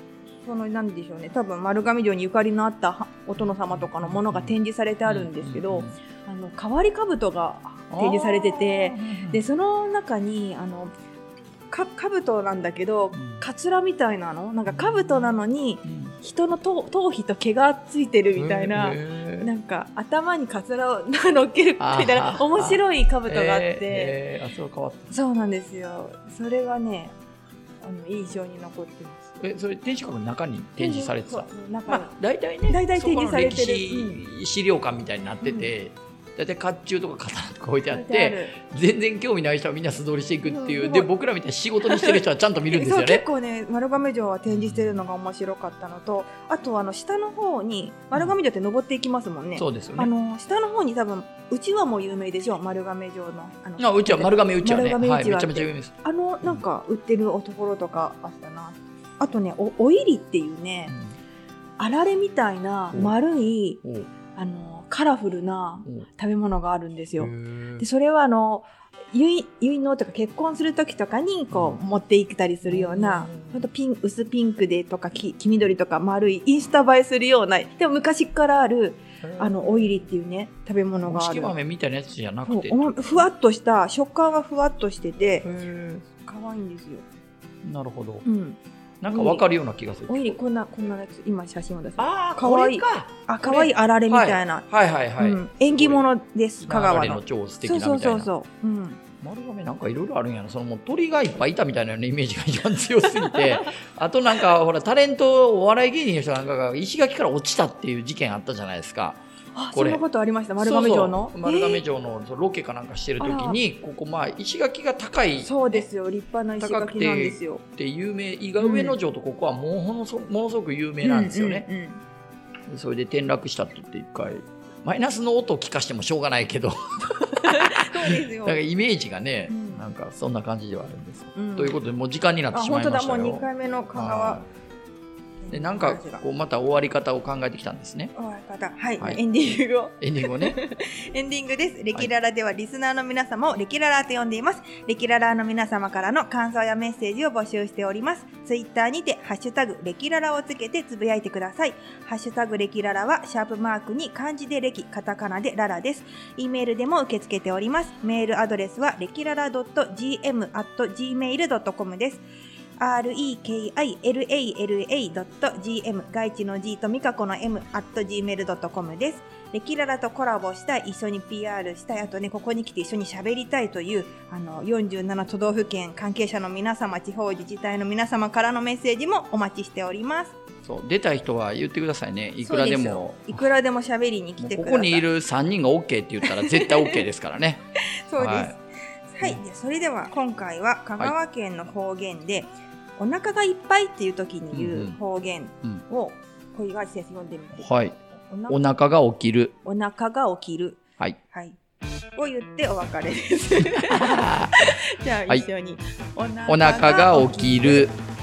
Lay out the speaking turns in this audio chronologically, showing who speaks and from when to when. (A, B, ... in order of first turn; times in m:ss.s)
0:00.4-0:10.9 A
0:03.4-0:06.0 B
0:07.9-0:09.4 B
0:11.7-0:24.2 A
0:13.1-0:13.4 B
0:14.7-0:16.2 B
0:18.4-0:19.5 B
0:21.8-0:25.1 B
0:25.1-0:27.1 A
0:27.8-0:29.3 A
0:29.4-0:43.2 B
0:30.8-0:32.1 A
0:32.7-0:34.2 A
0:35.4-0:35.7 A
0:37.9-0:38.6 A
0:40.4-0:41.1 A
0:41.8-0:42.2 A
0:42.7-1:00.9 A
0:44.5-0:45.0 B
0:49.5-0:50.1 B
0:53.8-0:55.9 B
1:00.9-1:01.1 B
1:01.8-1:03.8 A
1:03.8-1:04.1 B
1:04.3-1:21.5 A
1:07.2-1:07.8 B
1:11.5-1:11.8 B
1:12.6-1:13.6 B
1:19.2-1:20.0 B
1:21.0-1:23.3 B
1:22.4-1:25.5 A
1:25.4-1:26.1 B
1:26.2-1:27.0 A
1:27.6-1:28.2 B
1:28.2-1:29.4 A
1:29.0-1:30.4 B
1:30.1-1:34.6 A
1:32.0-1:36.0 B
1:35.2-1:39.0 A
1:36.6-1:38.3 B
1:39.2-1:49.2 B
1:43.2-1:43.7 A
1:49.5-1:51.8 A
1:49.7-1:50.0 B
1:50.6-1:55.9 B
1:53.2-1:53.6 A
1:55.4-1:57.6 A
1:56.6-2:01.6 B
1:58.6-1:59.0 A
2:01.0-2:02.0 A
2:02.7-2:14.5 B
2:07.3-2:08.6 A
2:09.5-2:09.8 A
2:11.3-2:11.8 A
2:12.5-2:14.4 A
2:15.4-2:16.2 A
2:15.5-2:18.1 B
2:18.1-2:42.2 A
2:20.0-2:20.6 B
2:42.8-3:00.4 A
3:00.6-3:03.4 B
3:02.4-3:05.0 A
3:04.4-3:07.6 B
3:06.2-3:07.0 A
3:08.1-3:17.7 A
3:08.2-3:08.5 B
3:14.5-3:15.0 B
3:17.6-3:19.5 B
3:18.3-3:18.6 A
3:19.6-3:21.6 A
3:22.2-3:27.9 A
3:23.8-3:25.4 B
3:26.5-3:28.0 B